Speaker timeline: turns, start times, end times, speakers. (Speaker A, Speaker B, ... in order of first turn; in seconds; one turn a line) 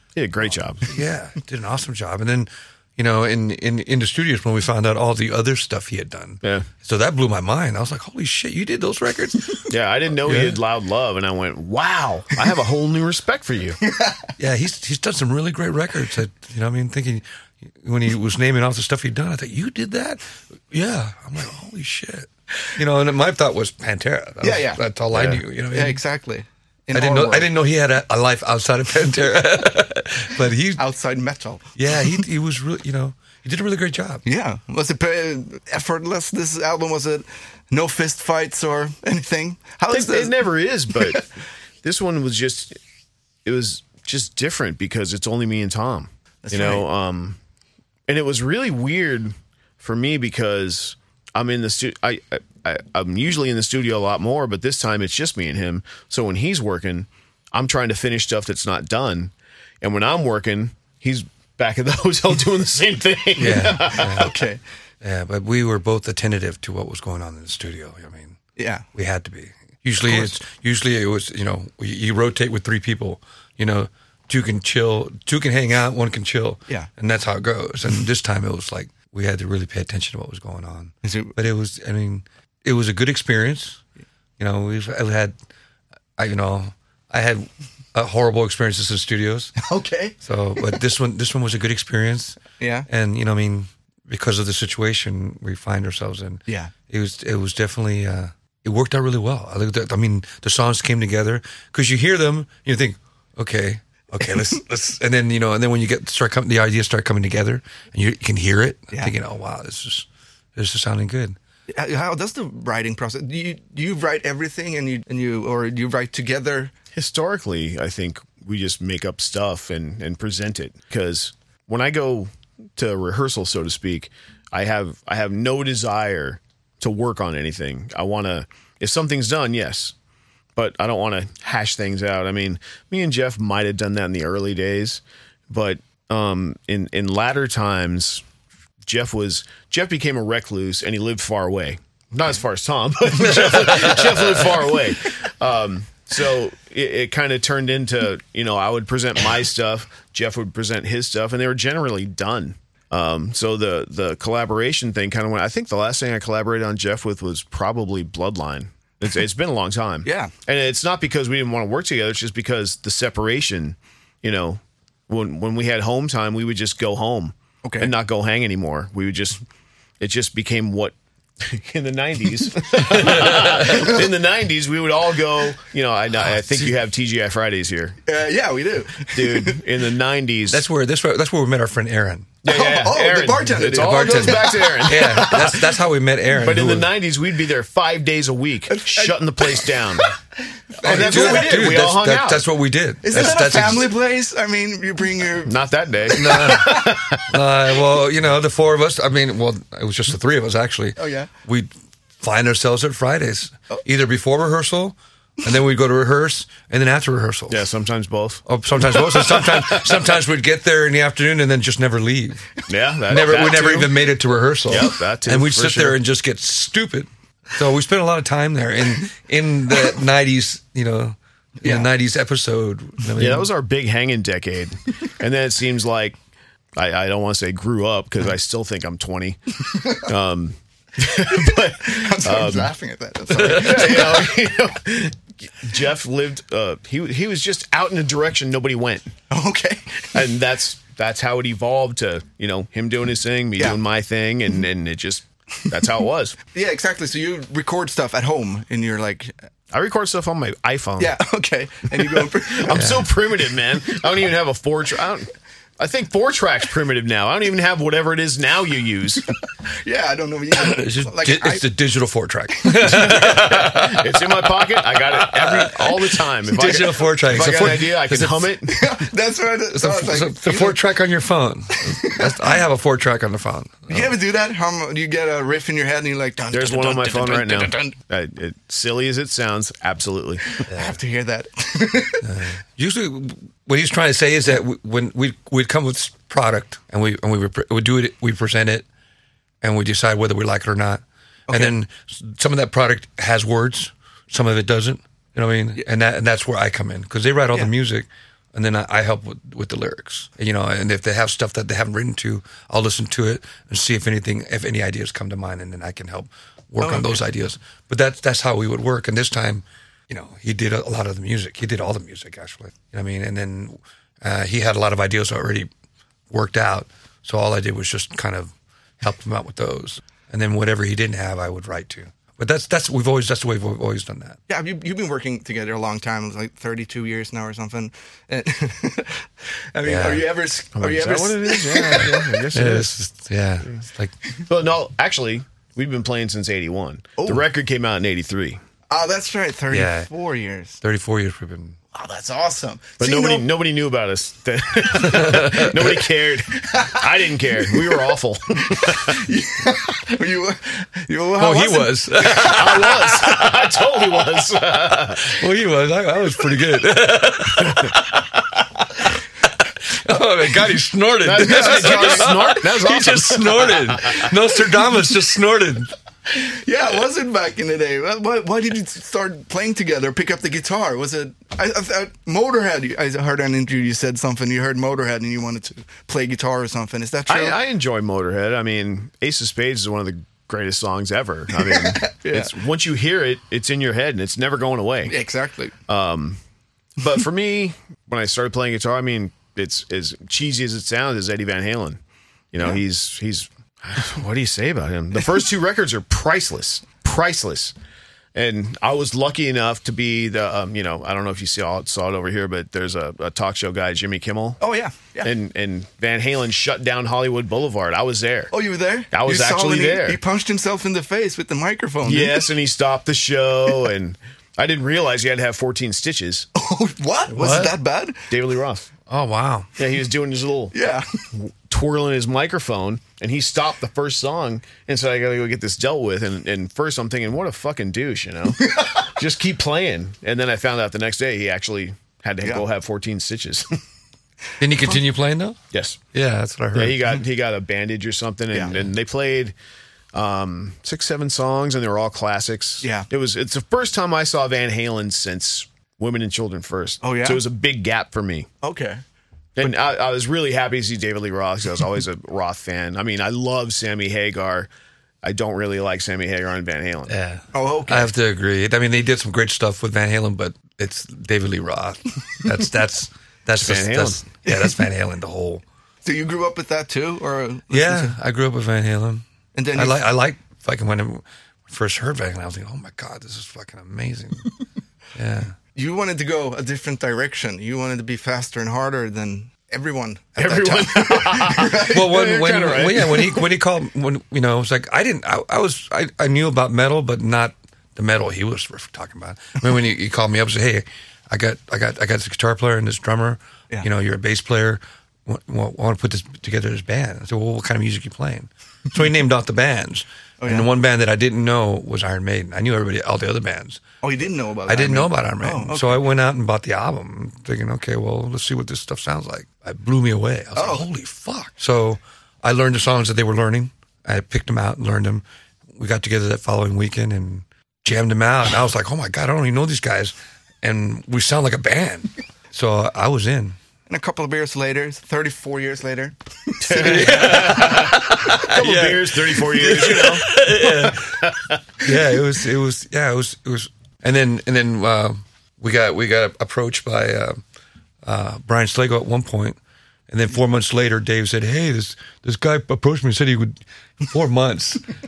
Speaker A: 0.1-0.8
Speaker B: 0.8-9.6
Speaker A: 9.7-13.8
Speaker B: 10.2-10.6
Speaker C: 13.8-14.3
Speaker B: 14.4-26.0
Speaker C: 24.4-24.8
Speaker A: 25.1-25.4
Speaker C: 25.7-27.5
Speaker B: 26.9-30.8
Speaker C: 30.8-31.7
Speaker B: 31.8-34.2
Speaker C: 34.2-41.2
Speaker A: 39.9-41.3
Speaker A: 41.8-42.8
Speaker A: 43.4-47.4
Speaker C: 46.4-46.8
Speaker A: 48.1-64.3
Speaker B: 63.4-64.4
Speaker C: 63.5-64.6
Speaker B: 65.0-68.4
Speaker C: 68.6-68.8
Speaker B: 68.9-83.8
Speaker C: 81.0-81.3
Speaker B: 84.4-85.3
Speaker B: 86.2-89.5
Speaker C: 89.6-90.8
Speaker B: 90.2-111.4
Speaker C: 92.6-92.9
Speaker C: 96.5-96.7
Speaker C: 111.7-116.7
Speaker A: 116.9-129.9
Speaker A: 130.6-138.2
Speaker A: 138.8-169.4
Speaker B: 143.1-144.7
Speaker C: 160.0-160.3
Speaker C: 167.6-167.9
Speaker A: 170.0-178.0
Speaker B: 172.9-173.9
Speaker C: 173.7-174.0
Speaker C: 178.1-179.6
Speaker A: 179.1-180.6
Speaker B: 180.5-182.3
Speaker A: 182.4-185.8
Speaker C: 182.5-185.3
Speaker B: 183.6-186.9
Speaker A: 186.3-190.1
Speaker C: 188.7-190.1
Speaker C: 190.7-191.7
Speaker B: 190.8-193.9
Speaker A: 190.8-192.4
Speaker C: 193.0-195.5
Speaker A: 195.4-197.4
Speaker C: 196.1-197.0
Speaker B: 196.1-201.7
Speaker C: 201.0-201.3
Speaker B: 202.2-207.6
Speaker A: 207.5-210.1
Speaker B: 208.4-212.5
Speaker A: 212.7-214.1
Speaker B: 213.1-223.5
Speaker A: 214.7-216.0
Speaker C: 221.6-221.9
Speaker A: 223.2-226.2
Speaker A: 226.8-232.7
Speaker C: 229.7-230.0
Speaker C: 231.0-234.3
Speaker B: 233.4-234.2
Speaker A: 233.4-239.1
Speaker C: 239.3-240.2
Speaker A: 240.1-246.4
Speaker C: 246.5-249.3
Speaker A: 249.7-251.2
Speaker C: 251.0-253.1
Speaker A: 252.0-259.3
Speaker B: 252.7-253.1
Speaker C: 259.8-261.6
Speaker B: 260.5-268.5
Speaker A: 262.8-268.9
Speaker C: 268.6-270.8
Speaker B: 269.7-274.1
Speaker C: 271.8-272.5
Speaker C: 273.9-277.9
Speaker A: 276.5-280.6
Speaker C: 280.5-282.3
Speaker B: 280.7-280.9
Speaker B: 282.2-288.9
Speaker B: 289.6-315.7
Speaker C: 291.5-291.8
Speaker C: 306.8-307.2
Speaker B: 316.3-324.4
Speaker C: 324.5-332.4
Speaker B: 329.8-330.2
Speaker A: 330.7-332.9
Speaker B: 332.5-334.1
Speaker A: 334.5-338.6
Speaker C: 337.2-337.4
Speaker C: 338.9-340.8
Speaker B: 339.7-340.1
Speaker B: 340.8-341.8
Speaker C: 341.9-343.5
Speaker A: 343.0-349.2
Speaker B: 345.0-345.9
Speaker C: 346.5-347.1
Speaker C: 348.6-353.5
Speaker B: 351.4-353.3
Speaker A: 352.3-355.4
Speaker B: 355.2-365.9
Speaker A: 357.6-357.9
Speaker A: 361.2-364.3
Speaker C: 361.4-362.4
Speaker C: 366.3-377.6
Speaker A: 377.3-385.1
Speaker C: 381.6-382.5
Speaker C: 385.1-385.7
Speaker A: 385.9-386.4
Speaker A: 387.0-392.0
Speaker A: 392.5-397.7
Speaker A: 398.3-404.6
Speaker C: 404.6-405.3
Speaker A: 405.2-408.5
Speaker C: 408.5-412.4
Speaker A: 409.1-410.2
Speaker A: 412.0-416.5
Speaker C: 416.5-418.3
Speaker B: 417.3-417.8
Speaker A: 418.3-418.9
Speaker B: 419.1-419.7
Speaker A: 419.8-420.7
Speaker C: 420.7-421.1
Speaker A: 421.3-433.7
Speaker C: 428.6-429.1
Speaker B: 434.6-435.6
Speaker A: 435.7-436.0
Speaker B: 436.1-437.0
Speaker A: 436.7-439.5
Speaker C: 438.5-438.9
Speaker A: 440.1-448.5
Speaker C: 442.8-443.1
Speaker C: 447.0-447.4
Speaker C: 448.6-449.0
Speaker A: 449.6-454.7
Speaker A: 455.2-457.1
Speaker B: 457.1-465.6
Speaker C: 457.5-458.1
Speaker A: 463.6-464.2
Speaker C: 464.4-464.8
Speaker C: 466.0-468.2
Speaker B: 467.7-469.2
Speaker C: 469.5-470.0
Speaker B: 469.7-474.5
Speaker B: 475.1-475.5
Speaker C: 475.7-482.0
Speaker A: 480.4-483.5
Speaker B: 481.9-503.8
Speaker C: 500.4-500.7
Speaker C: 504.0-506.0
Speaker B: 504.7-515.2
Speaker C: 510.6-510.8
Speaker B: 515.7-523.6
Speaker C: 523.9-527.7
Speaker A: 526.6-531.6
Speaker B: 526.7-531.2
Speaker B: 531.8-537.4
Speaker B: 538.0-544.9